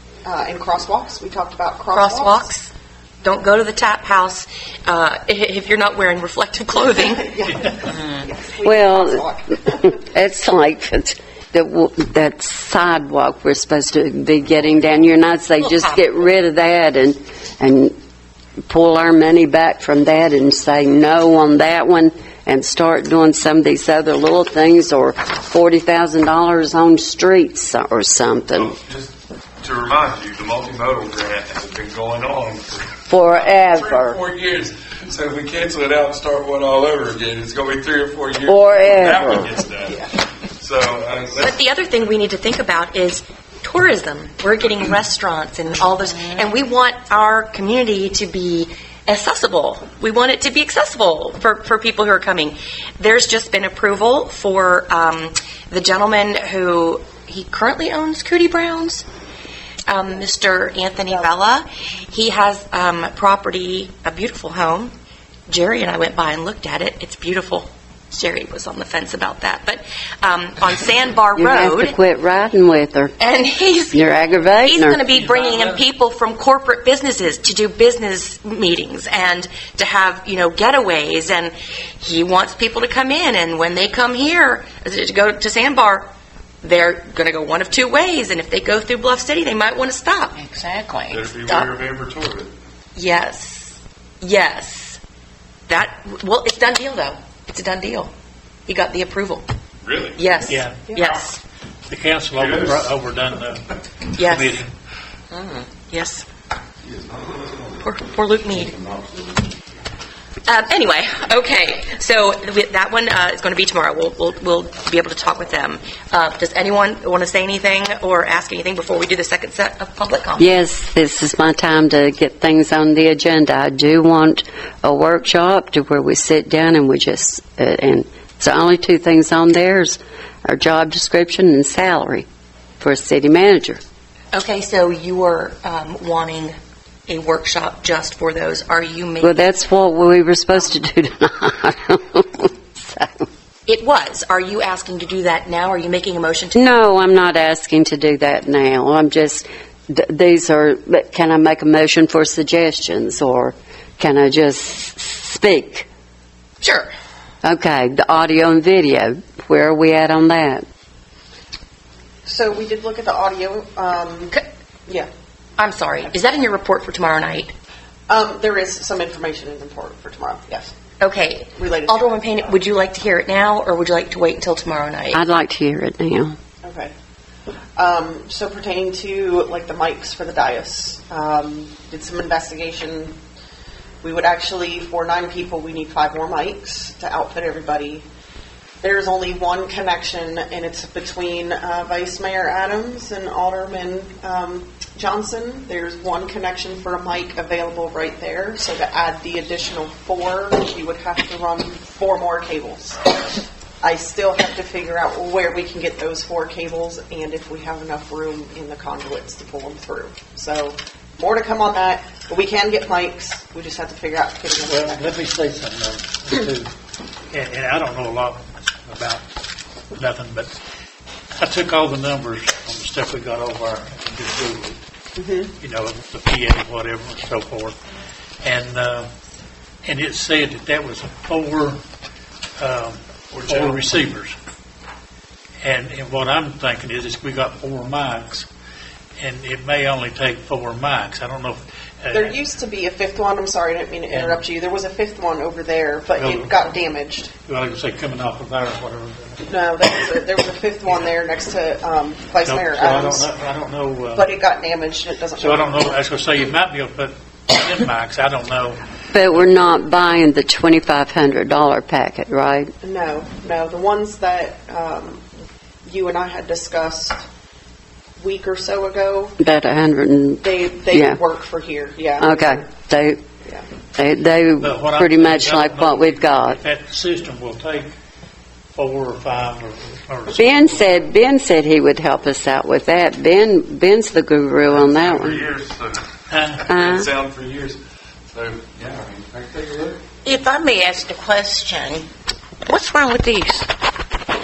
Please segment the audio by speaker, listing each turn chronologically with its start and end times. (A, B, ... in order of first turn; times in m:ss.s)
0:00.2-0:02.5 A
0:01.9-0:02.7 B
0:03.2-0:07.3 B
0:07.1-0:09.9 A
0:08.6-0:17.9 C
0:18.7-0:28.7 C
0:28.5-0:41.6 D
0:33.1-0:34.2 C
0:38.5-0:39.5 C
0:41.4-0:59.0 B
0:59.9-1:04.9 B
1:05.5-1:12.0 B
1:11.4-1:13.2 C
1:13.2-1:26.1 B
1:13.9-1:15.0 C
1:15.1-1:15.8 E
1:26.6-1:30.4 B
1:30.4-1:31.3 F
1:31.1-1:32.5 D
1:31.5-1:31.7 B
1:33.0-1:35.0 B
1:35.7-1:38.1 B
1:38.7-1:39.5 B
1:39.8-1:40.2 D
1:40.2-1:41.4 B
1:40.5-1:40.8 E
1:40.9-1:41.2 A
1:41.9-1:44.7 E
1:42.4-1:42.9 D
1:44.1-1:44.6 B
1:45.5-1:46.2 B
1:46.9-1:47.8 D
1:47.8-1:48.7 B
1:48.6-1:49.5 D
1:50.5-2:00.6 B
2:00.4-2:12.2 C
2:12.8-2:13.8 C
2:14.3-2:16.5 B
2:17.1-2:19.5 B
2:19.2-2:23.3 C
2:23.6-2:26.7 B
2:26.5-2:35.9 C
2:36.6-2:36.9 B
2:37.4-2:40.6 C
2:42.2-2:44.3 A
2:45.6-2:47.5 B
2:48.1-2:50.7 A
2:51.0-2:55.2 B
2:51.6-2:52.5 A
2:55.1-2:56.4 C
2:56.6-2:56.9 A
2:57.8-3:03.1 A
3:04.0-3:08.0 A
3:08.8-3:23.1 A
3:23.8-3:35.0 A
3:34.6-3:36.7 E
3:37.3-3:39.2 E
3:39.9-3:40.5 E
3:41.4-3:44.8 E
3:45.2-3:45.5 A
3:45.6-3:47.8 E
3:48.4-3:49.1 E
3:49.8-3:51.8 E
3:52.6-3:54.3 E
3:53.3-3:53.9 D
3:55.6-3:58.5 E
3:59.2-4:02.4 E
4:02.1-4:07.3 A
4:04.1-4:04.4 E
4:06.2-4:06.6 E
4:07.5-4:09.4 E
4:09.5-4:13.3 A
4:12.4-4:14.3 E
4:14.1-4:15.9 A
4:15.4-4:19.5 E
4:19.1-4:22.7 C
4:22.8-4:25.2 A
4:25.8-4:27.2 A
4:28.2-4:29.4 A
4:29.4-4:31.2 C
4:30.4-4:32.6 A
4:32.2-4:33.2 C
4:34.0-4:36.6 C
4:34.6-4:37.9 E
4:38.7-4:41.0 E
4:40.3-4:45.5 C
4:44.7-4:47.8 D
4:46.3-4:46.8 E
4:46.7-4:47.1 C
4:48.3-4:50.0 D
4:50.2-4:52.1 F
4:52.6-4:53.7 F